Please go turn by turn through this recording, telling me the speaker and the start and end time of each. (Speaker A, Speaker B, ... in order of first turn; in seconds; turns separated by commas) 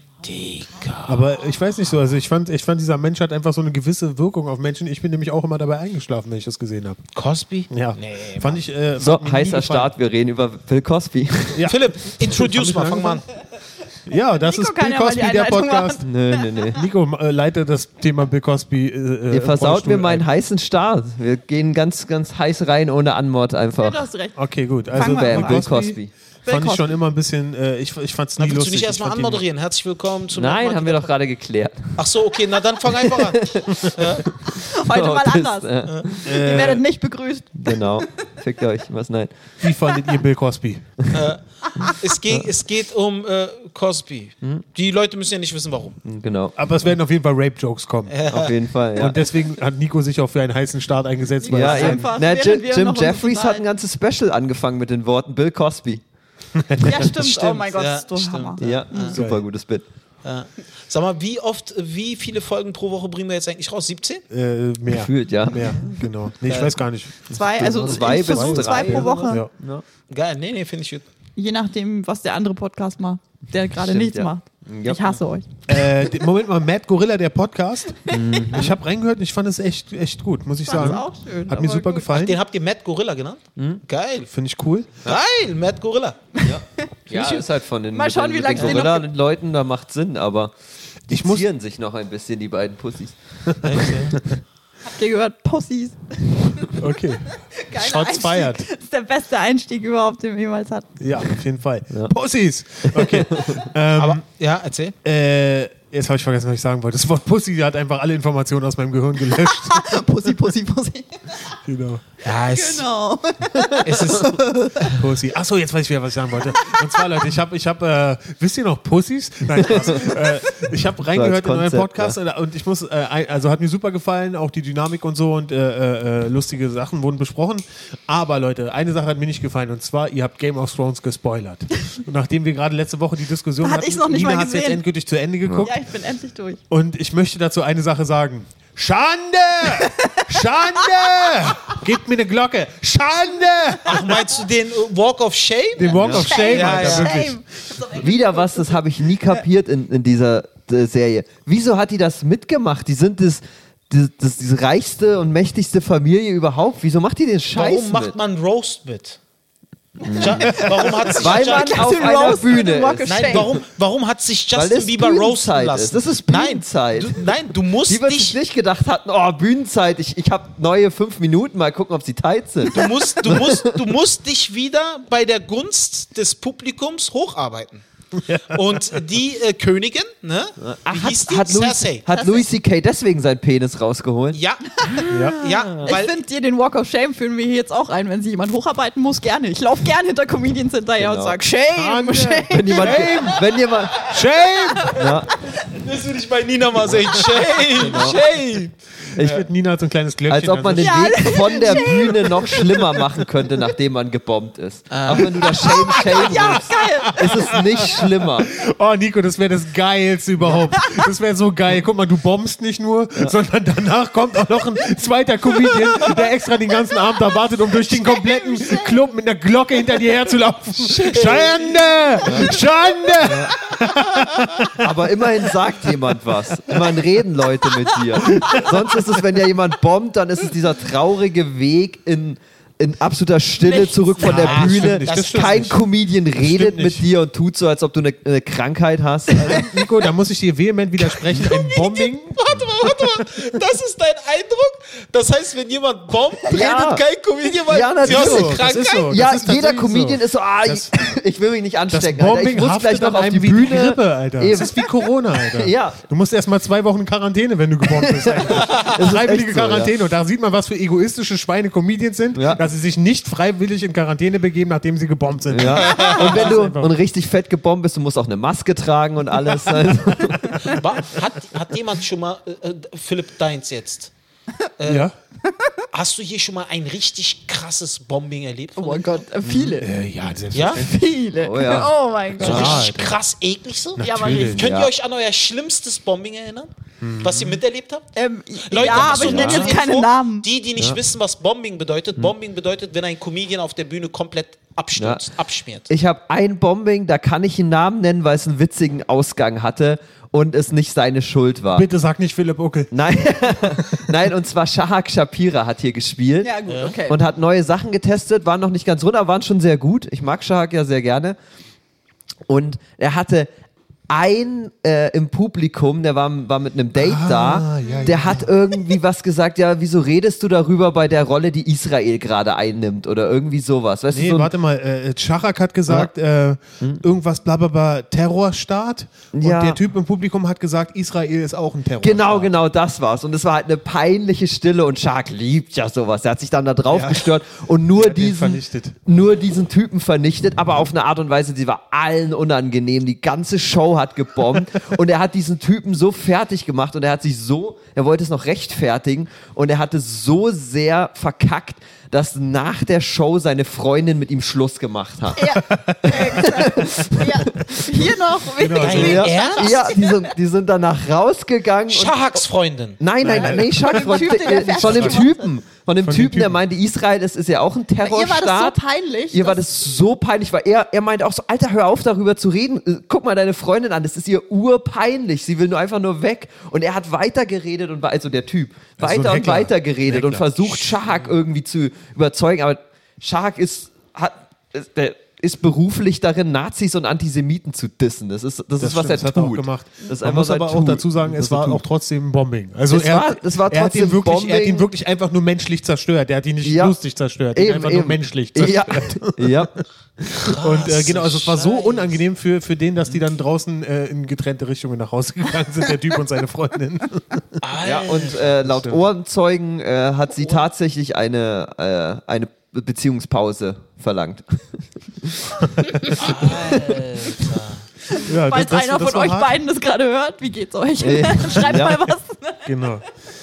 Speaker A: 0.2-1.3, Speaker B: 1.1-7.0, Speaker A: 7.1-8.6, Speaker B: 7.7-9.9, Speaker C: 9.0-11.7, Speaker B: 11.5-13.2, Speaker A: 11.6-13.3, Speaker B: 14.1-16.0, Speaker D: 14.1-16.7, Speaker C: 16.0-16.8, Speaker B: 16.7-20.2, Speaker C: 19.3-24.0, Speaker D: 23.8-24.4, Speaker B: 24.4-29.4, Speaker D: 24.9-25.8, Speaker C: 24.9-26.1, Speaker D: 26.4-26.9, Speaker A: 28.4-31.1, Speaker C: 30.3-32.0, Speaker A: 31.9-34.3, Speaker C: 32.9-36.7, Speaker D: 34.5-38.2, Speaker A: 35.8-36.2, Speaker B: 36.2-36.8, Speaker C: 37.6-39.3, Speaker B: 39.6-40.9, Speaker A: 41.1-46.0, Speaker C: 46.0-46.6, Speaker B: 46.5-48.1, Speaker A: 48.1-48.5, Speaker C: 48.3-49.2, Speaker B: 49.0-52.1, Speaker D: 51.4-53.6, Speaker C: 51.5-56.0, Speaker B: 56.5-57.0, Speaker D: 56.8-59.1, Speaker A: 56.9-59.1, Speaker C: 58.6-59.8, Speaker B: 59.1-59.4, Speaker A: 60.2-64.2, Speaker B: 64.3-69.5, Speaker C: 64.8-65.9, Speaker A: 66.4-66.8, Speaker D: 67.3-69.4, Speaker C: 67.3-69.8, Speaker A: 70.1-71.0, Speaker D: 71.3-75.7, Speaker C: 73.8-75.0, Speaker B: 75.7-82.4, Speaker D: 78.0-78.7, Speaker C: 78.1-78.8, Speaker D: 80.6-82.1, Speaker A: 82.1-84.3, Speaker C: 83.6-83.8, Speaker B: 84.3-84.9, Speaker A: 85.0-86.2, Speaker D: 86.3-89.1, Speaker C: 86.4-90.5, Speaker B: 91.1-91.5, Speaker C: 91.1-93.7, Speaker B: 93.4-94.3, Speaker A: 93.6-94.2, Speaker D: 94.8-101.0, Speaker B: 96.8-98.7, Speaker B: 101.0-104.2, Speaker C: 102.8-103.7, Speaker A: 103.9-104.9, Speaker B: 105.0-110.0, Speaker D: 109.3-111.6, Speaker B: 111.6-112.0, Speaker A: 112.2-112.8, Speaker D: 112.3-115.0, Speaker A: 113.8-114.3, Speaker B: 114.9-135.8, Speaker D: 116.5-117.2, Speaker C: 119.6-120.2, Speaker C: 121.1-122.2, Speaker D: 133.6-134.8, Speaker D: 135.6-136.6, Speaker B: 136.7-144.2, Speaker D: 139.8-141.4, Speaker A: 143.8-147.1, Speaker B: 145.8-147.4, Speaker C: 146.0-146.2, Speaker D: 146.1-149.4, Speaker C: 147.9-158.2, Speaker A: 157.5-159.2, Speaker C: 160.0-163.6, Speaker A: 160.1-162.3, Speaker D: 160.4-163.5, Speaker A: 163.0-168.3, Speaker C: 164.5-167.3, Speaker C: 167.9-173.8, Speaker A: 172.7-177.8, Speaker B: 178.2-179.0, Speaker A: 178.5-182.1, Speaker C: 180.6-184.4, Speaker D: 182.1-182.5, Speaker A: 184.3-186.2, Speaker D: 184.9-193.5, Speaker C: 185.1-185.9, Speaker B: 185.1-185.4, Speaker C: 191.0-191.4, Speaker B: 191.8-193.3, Speaker C: 192.5-194.1, Speaker B: 194.0-195.0, Speaker C: 194.9-195.4, Speaker A: 195.5-199.4, Speaker D: 197.6-198.1, Speaker C: 197.7-198.2, Speaker C: 199.1-199.4, Speaker B: 199.2-202.8, Speaker C: 200.3-208.5, Speaker D: 200.8-203.1, Speaker A: 204.9-205.8, Speaker D: 205.2-208.1, Speaker B: 206.1-225.0, Speaker D: 215.6-216.2, Speaker D: 217.9-219.0, Speaker A: 220.8-222.5, Speaker C: 222.2-222.6, Speaker C: 223.2-223.6, Speaker C: 224.8-239.7, Speaker B: 228.2-228.6, Speaker D: 233.6-234.6, Speaker B: 234.2-235.8, Speaker A: 234.4-235.0, Speaker B: 236.4-237.0, Speaker B: 239.4-243.1, Speaker A: 241.4-249.1, Speaker C: 246.4-247.0, Speaker C: 247.7-254.9, Speaker B: 248.0-250.9, Speaker B: 251.9-266.9, Speaker C: 255.4-256.0, Speaker C: 257.9-259.9, Speaker A: 258.5-259.0, Speaker C: 262.3-262.6, Speaker C: 265.5-270.7, Speaker D: 265.7-266.4, Speaker A: 265.9-266.5, Speaker B: 269.5-270.6, Speaker A: 270.6-274.1, Speaker A: 274.8-275.1, Speaker B: 274.9-275.1, Speaker A: 275.9-279.2, Speaker D: 278.8-279.9, Speaker C: 279.4-279.9, Speaker B: 279.8-280.9, Speaker A: 280.5-280.8, Speaker D: 280.7-282.9, Speaker C: 281.3-282.9, Speaker B: 282.4-283.2, Speaker A: 282.4-286.7, Speaker B: 284.0-284.7, Speaker D: 284.0-284.6, Speaker C: 284.2-284.9, Speaker B: 287.0-287.6, Speaker A: 287.2-288.1, Speaker D: 288.1-290.5, Speaker A: 288.6-295.9, Speaker C: 288.9-289.7, Speaker C: 295.0-295.2, Speaker C: 295.9-301.9, Speaker B: 301.7-304.1, Speaker C: 302.9-311.4, Speaker D: 306.4-307.2, Speaker A: 306.7-306.9, Speaker C: 312.5-313.5, Speaker C: 314.1-324.5, Speaker B: 316.9-318.5, Speaker B: 324.1-332.5, Speaker C: 329.3-329.8, Speaker C: 332.0-358.2, Speaker B: 336.9-337.4, Speaker B: 337.9-339.0, Speaker D: 355.4-360.3, Speaker B: 355.7-356.6, Speaker B: 358.6-359.3, Speaker C: 358.7-362.4, Speaker A: 358.8-359.8, Speaker A: 361.9-363.0, Speaker C: 363.0-368.8, Speaker B: 363.2-365.3, Speaker D: 363.2-365.5, Speaker B: 366.0-366.6, Speaker D: 368.0-369.6, Speaker C: 369.3-391.8, Speaker B: 379.0-381.2, Speaker B: 388.8-399.7, Speaker C: 392.9-394.9, Speaker C: 396.6-397.0, Speaker C: 397.5-399.8, Speaker A: 400.3-402.2, Speaker B: 400.4-407.6, Speaker A: 407.6-408.5, Speaker C: 407.8-417.0, Speaker B: 408.4-409.0, Speaker B: 415.7-416.2, Speaker A: 416.1-417.8, Speaker D: 418.1-422.9, Speaker B: 418.2-419.6, Speaker C: 421.0-422.1, Speaker B: 422.6-423.0